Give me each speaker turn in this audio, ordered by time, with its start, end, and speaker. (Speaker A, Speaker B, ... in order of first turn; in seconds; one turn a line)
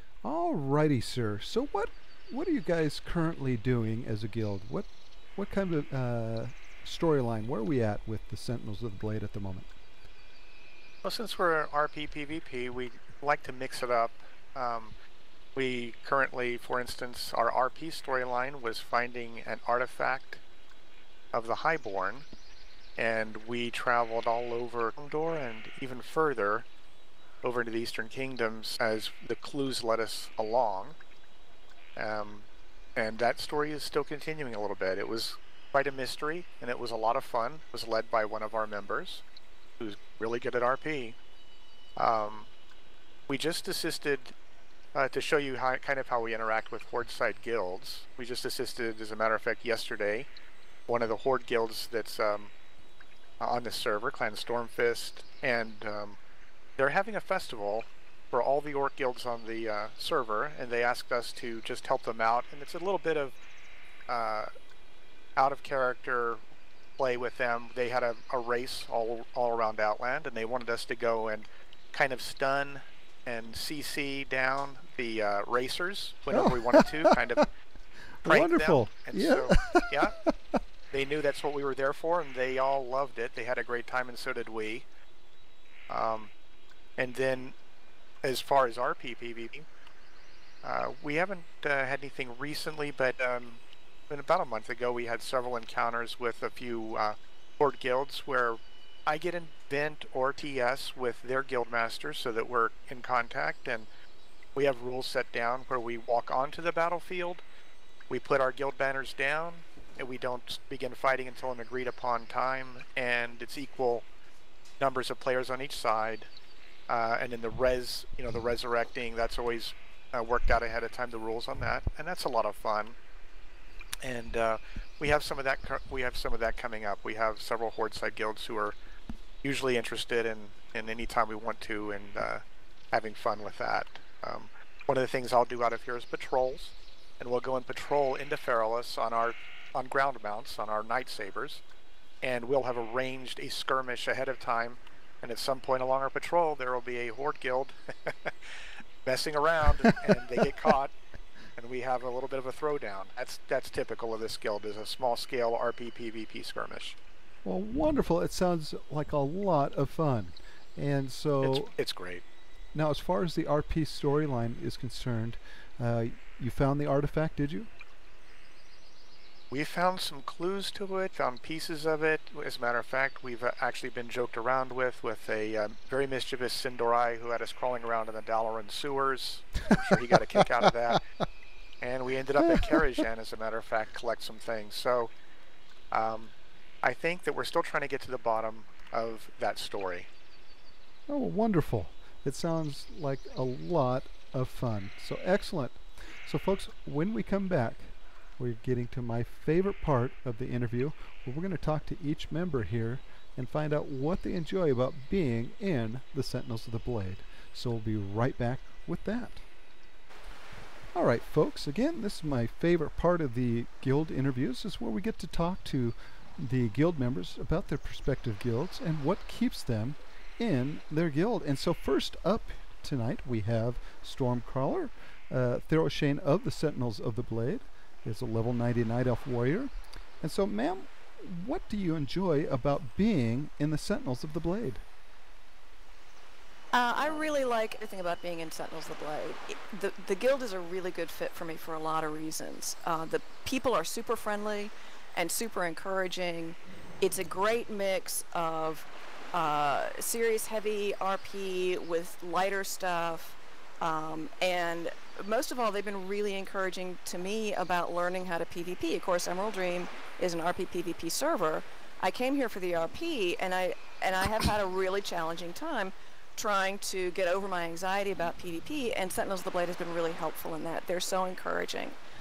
Speaker A: 0.2-9.7
Speaker B: 11.0-14.9
Speaker B: 15.5-20.4
Speaker B: 21.3-22.2
Speaker B: 23.0-26.6
Speaker B: 27.4-31.0
Speaker B: 31.9-39.2
Speaker B: 39.8-41.2
Speaker B: 42.0-42.5
Speaker B: 43.3-44.3
Speaker B: 44.9-50.3
Speaker B: 50.9-52.5
Speaker B: 53.4-56.2
Speaker B: 56.8-63.4
Speaker B: 64.1-64.5
Speaker B: 65.3-66.4
Speaker B: 67.0-77.5
Speaker A: 76.3-77.2
Speaker A: 78.2-80.6
Speaker B: 78.2-80.2
Speaker B: 80.9-84.8
Speaker B: 85.9-86.3
Speaker B: 87.0-87.5
Speaker B: 88.2-89.6
Speaker B: 90.6-103.9
Speaker B: 104.5-107.4
Speaker B: 108.1-114.0
Speaker B: 114.8-116.3
Speaker B: 116.9-123.0
Speaker B: 124.0-128.8
Speaker B: 129.4-141.6
Speaker B: 142.2-148.3
Speaker B: 149.0-150.9
Speaker A: 150.3-150.7
Speaker B: 151.6-157.0
Speaker A: 157.4-161.7
Speaker B: 161.4-162.2
Speaker A: 162.7-167.7
Speaker B: 169.5-181.0
Speaker B: 181.8-185.1
Speaker A: 182.5-183.0
Speaker B: 185.9-190.1
Speaker A: 191.1-209.4
Speaker A: 210.9-234.8
Speaker C: 236.7-272.0